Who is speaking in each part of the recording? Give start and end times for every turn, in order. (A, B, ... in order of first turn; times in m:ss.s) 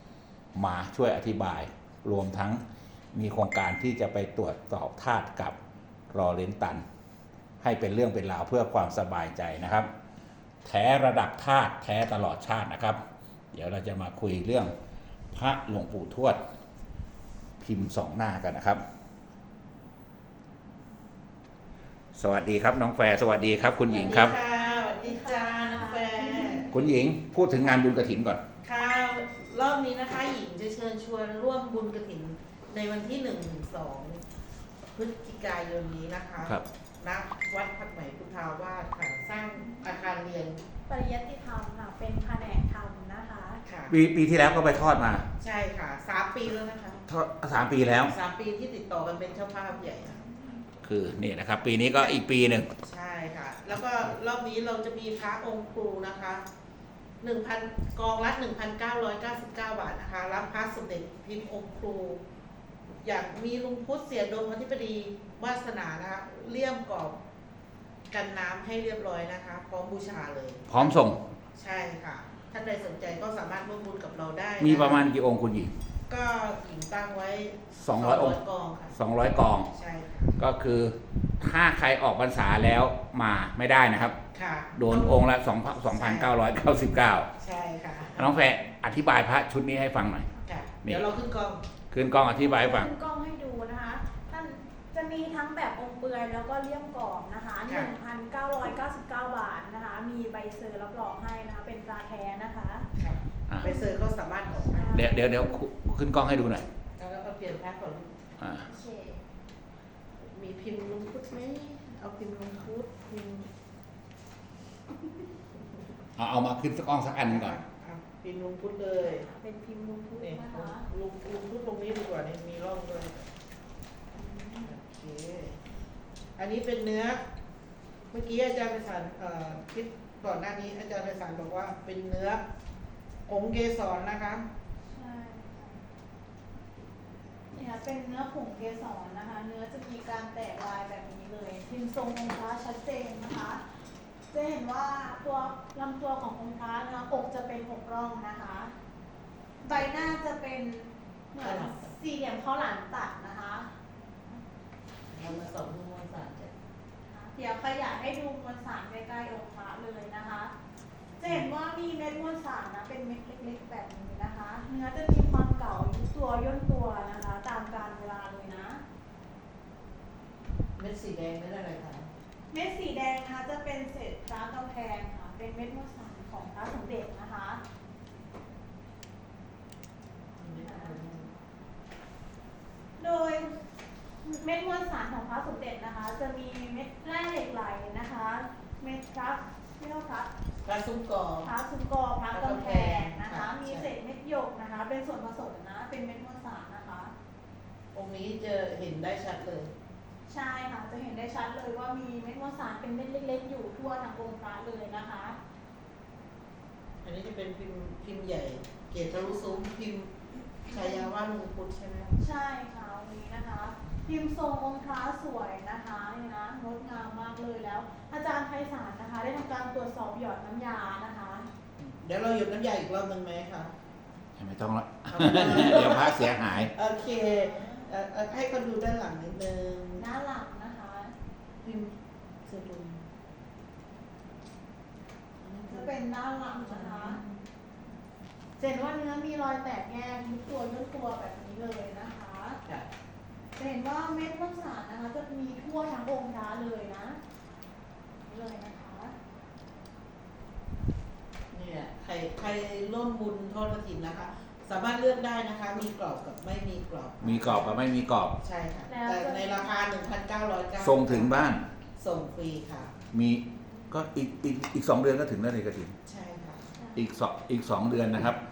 0:00.5-0:02.6 A
0:03.1-0:05.6 A
0:06.1-0:06.8 A
0:07.6-0:09.9 A
0:10.6-0:13.0 A
0:13.5-0:14.7 A
0:15.3-0:16.4 A
0:17.6-0:18.8 A
0:22.1-0:24.4 A
0:23.9-0:26.7 B
0:24.1-0:26.7 C
0:26.7-0:28.4 A
0:28.6-0:34.2 B
0:34.9-0:40.6 B
0:40.9-0:43.6 C
0:43.6-0:43.9 B
0:43.9-0:45.3 A
0:45.4-0:47.0 B
0:47.1-0:48.1 A
0:48.0-0:50.2 B
0:50.1-0:50.6 C
0:50.8-0:52.7 A
0:52.8-0:56.4 B
0:57.2-1:02.2 B
1:03.0-1:07.2 B
1:08.1-1:11.0 B
1:10.7-1:11.2 A
1:11.5-1:15.1 B
1:14.6-1:15.7 A
1:16.1-1:19.0 B
1:17.7-1:18.4 A
1:18.9-1:19.7 A
1:19.7-1:20.4 B
1:20.4-1:24.2 A
1:24.3-1:25.2 B
1:24.7-1:27.3 A
1:25.9-1:26.3 B
1:27.4-1:28.5 B
1:28.2-1:30.3 A
1:30.4-1:31.6 B
1:31.9-1:32.9 A
1:32.1-1:42.9 C
1:37.7-1:37.9 B
1:43.0-1:45.1 B
1:43.6-1:44.0 C
1:44.7-1:45.5 C
1:44.9-1:46.6 A
1:47.0-1:48.1 B
1:48.4-1:48.6 A
1:48.6-1:49.2 C
1:50.2-1:53.5 B
1:56.2-1:57.6 A
1:57.3-1:59.2 B
1:59.0-2:00.9 C
2:00.2-2:03.3 B
2:04.1-2:04.7 C
2:04.6-2:05.6 B
2:06.4-2:07.2 B
2:08.1-2:12.4 B
2:13.3-2:14.5 B
2:14.9-2:15.8 C
2:17.5-2:23.6 C
2:24.3-2:28.7 C
2:29.6-2:33.7 C
2:31.4-2:31.9 B
2:35.1-2:36.6 B
2:37.1-2:40.5 C
2:41.2-2:48.8 C
2:50.8-2:52.1 B
2:52.5-2:57.6 C
3:00.4-3:01.3 B
3:00.5-3:01.0 C
3:03.0-3:03.6 C
3:04.2-3:10.3 C
3:10.6-3:11.5 B
3:11.4-3:17.1 C
3:12.3-3:13.9 B
3:17.9-3:19.7 B
3:20.3-3:25.4 C
3:27.0-3:30.1 B
3:30.6-3:32.1 B
3:30.7-3:31.1 C
3:32.2-3:41.5 C
3:41.8-3:43.7 B
3:44.4-3:46.7 A
3:45.1-3:50.0 B
3:50.0-3:51.1 C
3:51.6-3:51.9 B
3:52.4-3:53.1 B
3:55.4-3:56.0 B
3:55.7-3:57.2 C
3:56.5-3:57.4 B
3:58.6-4:02.6 C
4:03.6-4:07.2 C
4:08.3-4:09.1 C
4:11.5-4:17.7 B
4:17.2-4:18.4 A
4:18.4-4:22.9 B
4:18.9-4:19.7 C
4:20.8-4:21.6 A
4:23.1-4:26.0 A
4:26.0-4:26.8 B
4:26.9-4:28.4 A